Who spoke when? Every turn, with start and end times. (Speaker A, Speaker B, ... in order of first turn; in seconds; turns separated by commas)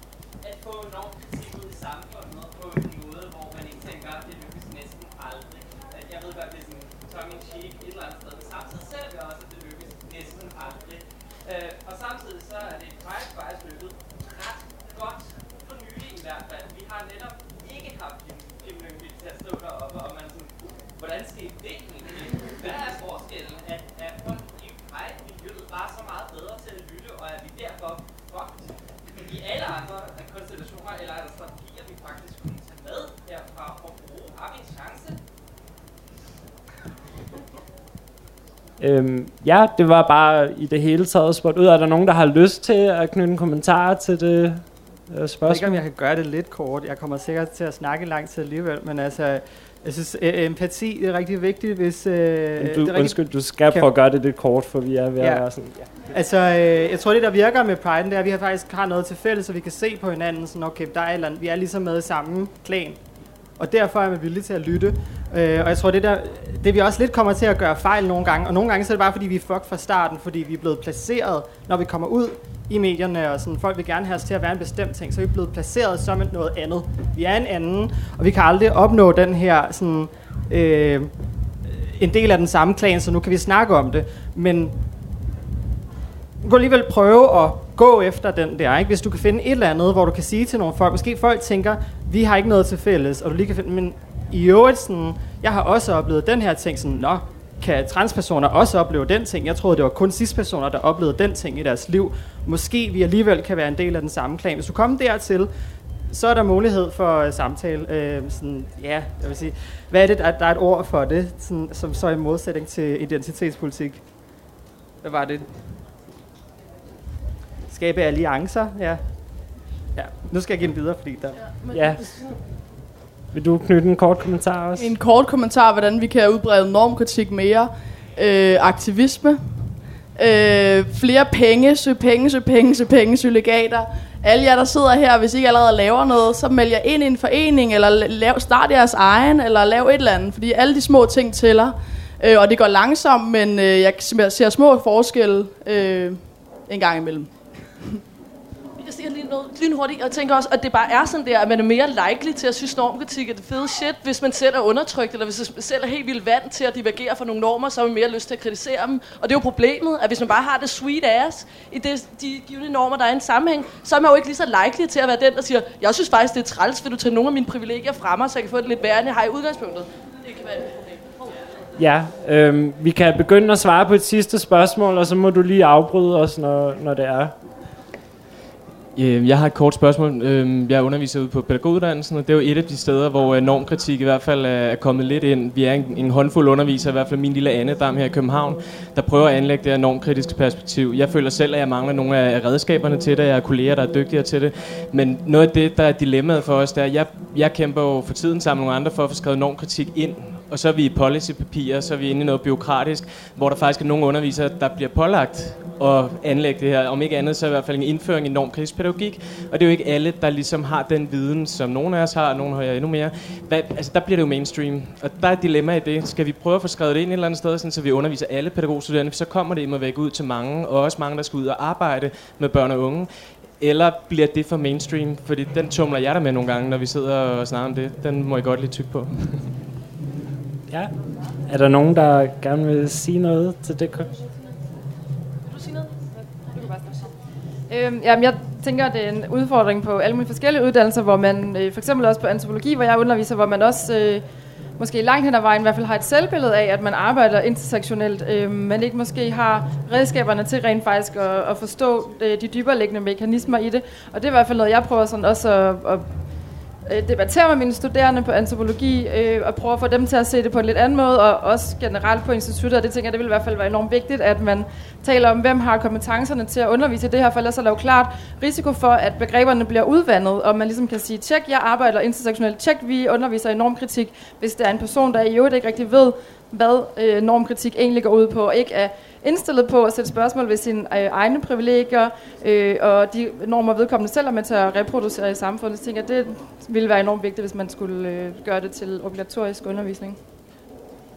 Speaker A: 0.4-35.2, Speaker B: 38.8-45.8, Speaker C: 45.5-53.2, Speaker B: 52.6-55.9, Speaker C: 56.1-63.0, Speaker C: 63.6-81.1, Speaker C: 81.6-84.8, Speaker C: 86.4-105.5, Speaker C: 106.1-114.0, Speaker C: 115.0-115.5, Speaker C: 117.7-119.0, Speaker C: 120.0-121.4, Speaker D: 121.4-122.3, Speaker B: 121.7-122.0, Speaker B: 123.3-124.9, Speaker E: 124.8-148.0, Speaker D: 148.8-171.3, Speaker B: 171.8-177.3, Speaker F: 178.9-229.6, Speaker B: 231.5-234.2, Speaker D: 235.5-236.0, Speaker G: 237.7-244.2, Speaker G: 244.8-256.1, Speaker G: 256.9-290.2